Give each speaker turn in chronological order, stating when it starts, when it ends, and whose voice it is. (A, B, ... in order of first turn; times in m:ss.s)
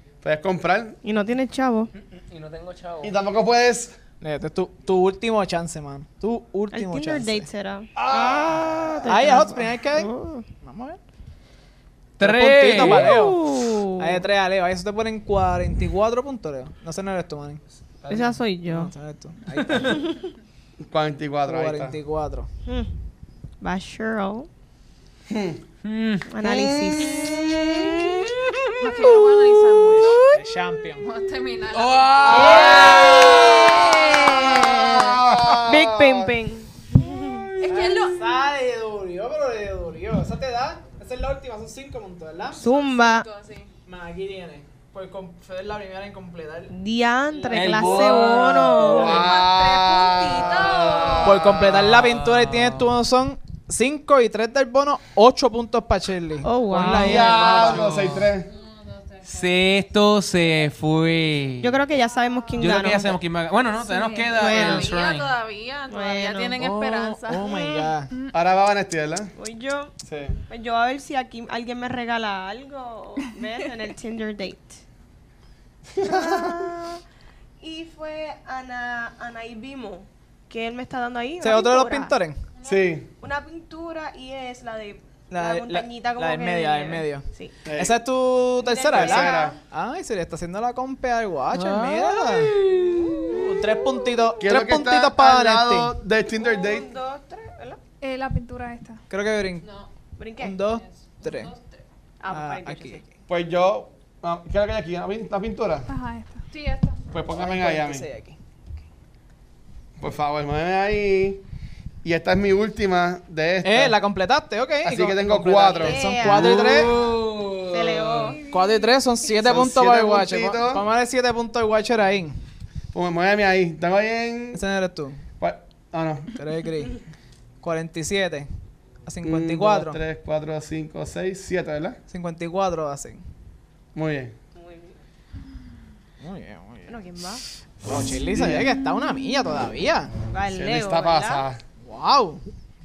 0:00.2-0:01.0 A
0:01.0-0:01.9 B
0:02.0-0:03.2 C
0:03.0-0:03.9 A
0:04.2-0:07.4 D
0:06.7-0:10.4 B
0:08.0-0:09.0 A
0:09.0-0:11.0 D
0:12.2-0:13.2 C
0:12.2-0:17.6 D
0:12.8-0:14.2 B
0:18.0-0:18.4 C
0:18.1-0:18.9 B
0:18.7-0:20.0 D
0:19.6-0:19.9 C
0:19.8-0:20.3 B
0:20.8-0:22.0 A
0:21.5-0:22.5 D
0:22.6-0:22.9 B
0:23.6-0:24.5 B
0:25.3-0:25.6 A
0:25.8-0:26.3 C
0:26.3-0:28.4 B
0:26.4-0:28.3 A
0:28.8-0:35.2 E
0:30.3-0:31.0 D
0:31.7-0:33.9 C
0:32.4-0:37.5 B
0:34.5-0:36.4 A
0:37.1-0:38.0 A
0:37.6-0:38.2 E
0:37.7-0:42.6 D
0:42.6-0:43.3 B
0:42.7-0:43.7 E
0:43.8-0:46.7 D
0:46.7-0:49.3 B
0:47.5-0:48.8 C
0:47.5-0:49.1 D
0:47.9-0:51.4 E
0:48.9-0:51.4 A
0:51.2-0:57.8 D
0:51.4-0:52.9 C
0:56.4-0:57.6 B
0:56.9-0:58.5 A
0:57.5-0:58.3 C
0:58.5-0:59.2 E
0:59.2-1:01.8 C
1:01.6-1:03.2 B
1:02.6-1:05.3 C
1:03.8-1:04.4 F
1:04.3-1:04.9 B
1:04.4-1:07.9 E
1:05.9-1:06.6 B
1:06.6-1:08.1 D
1:08.3-1:09.3 A
1:09.4-1:09.9 B
1:10.0-1:10.4 A
1:10.5-1:14.8 B
1:15.9-1:16.7 A
1:16.0-1:17.0 B
1:17.6-1:22.1 B
1:21.4-1:22.4 D
1:22.6-1:23.1 A
1:23.2-1:27.5 B
1:25.3-1:27.2 D
1:27.6-1:28.0 A
1:27.8-1:32.6 D
1:28.6-1:29.6 B
1:28.9-1:29.6 A
1:31.5-1:33.4 C
1:32.8-1:33.3 B
1:33.2-1:35.9 D
1:34.4-1:36.8 A
1:36.3-1:37.8 B
1:38.0-1:39.0 F
1:39.1-1:39.6 D
1:39.6-1:39.9 E
1:40.2-1:40.6 B
1:40.4-1:41.5 D
1:40.6-1:41.8 E
1:42.2-1:43.1 B
1:42.3-1:43.0 D
1:43.3-1:45.9 A
1:45.9-1:46.4 F
1:46.5-1:47.0 E
1:47.1-1:48.0 A
1:47.3-1:48.4 D
1:50.0-1:51.4 A
1:52.0-1:54.0 A
1:53.6-1:56.9 D
1:54.8-1:56.0 A
1:55.8-1:57.1 B
1:56.2-1:58.4 C
1:57.7-1:58.4 B
1:58.4-1:58.7 F
1:58.4-2:02.4 D
1:59.4-2:00.8 A
2:02.9-2:04.6 A
2:04.5-2:05.2 D
2:05.4-2:06.3 A
2:06.4-2:07.0 D
2:07.6-2:08.5 D
2:09.0-2:10.0 D
2:09.2-2:12.0 A
2:12.1-2:13.2 D
2:13.9-2:14.3 A
2:14.5-2:15.0 B
2:16.2-2:17.0 D
2:16.9-2:17.4 B
2:17.8-2:20.1 D
2:18.3-2:18.6 A
2:20.3-2:21.4 B
2:20.5-2:21.6 A
2:21.8-2:22.4 D